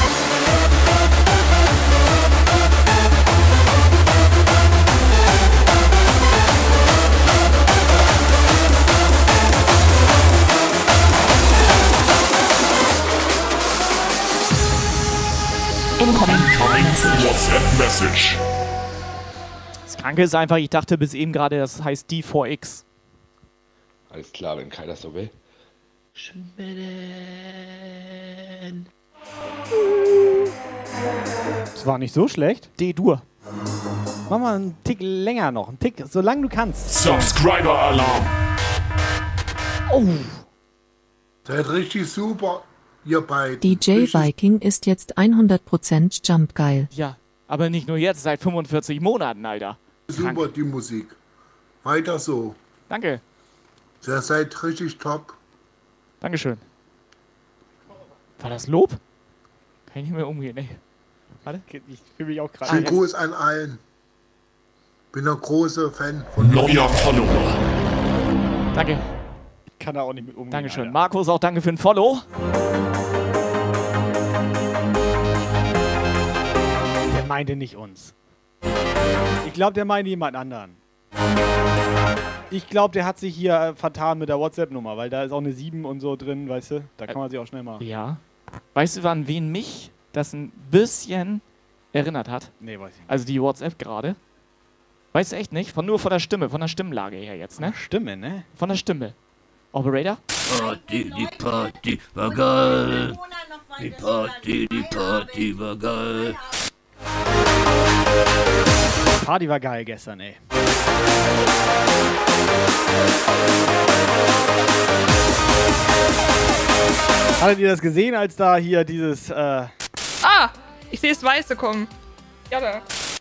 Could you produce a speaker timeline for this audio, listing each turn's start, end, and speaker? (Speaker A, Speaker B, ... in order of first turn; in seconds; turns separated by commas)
Speaker A: 16.2-18.4, Speaker B: 19.9-22.8, Speaker C: 24.1-25.3, Speaker C: 26.1-28.8, Speaker D: 31.7-32.7, Speaker B: 32.8-33.2, Speaker D: 34.3-37.4, Speaker A: 36.9-38.3, Speaker B: 39.9-40.4, Speaker E: 41.4-44.3, Speaker F: 43.6-46.9, Speaker B: 46.9-50.5, Speaker E: 50.1-51.1, Speaker E: 51.8-52.5, Speaker B: 52.9-53.2, Speaker E: 54.0-55.3, Speaker B: 56.2-56.6, Speaker B: 58.4-59.0, Speaker B: 59.9-60.8, Speaker D: 61.6-63.0, Speaker B: 62.6-63.0, Speaker E: 62.6-63.8, Speaker E: 65.1-66.9, Speaker A: 66.4-67.6, Speaker B: 68.7-69.0, Speaker D: 69.8-71.0, Speaker B: 70.5-72.2, Speaker D: 77.1-78.1, Speaker D: 79.4-80.8, Speaker D: 82.5-87.8, Speaker B: 87.8-88.2, Speaker B: 88.7-92.5, Speaker D: 92.6-93.1, Speaker B: 93.1-94.2, Speaker B: 95.1-97.8, Speaker D: 97.6-98.5, Speaker B: 98.5-99.1, Speaker B: 99.7-100.2, Speaker G: 100.5-103.2, Speaker G: 103.8-106.4, Speaker D: 109.1-110.4, Speaker D: 117.4-119.7, Speaker H: 120.2-121.9, Speaker H: 122.5-122.8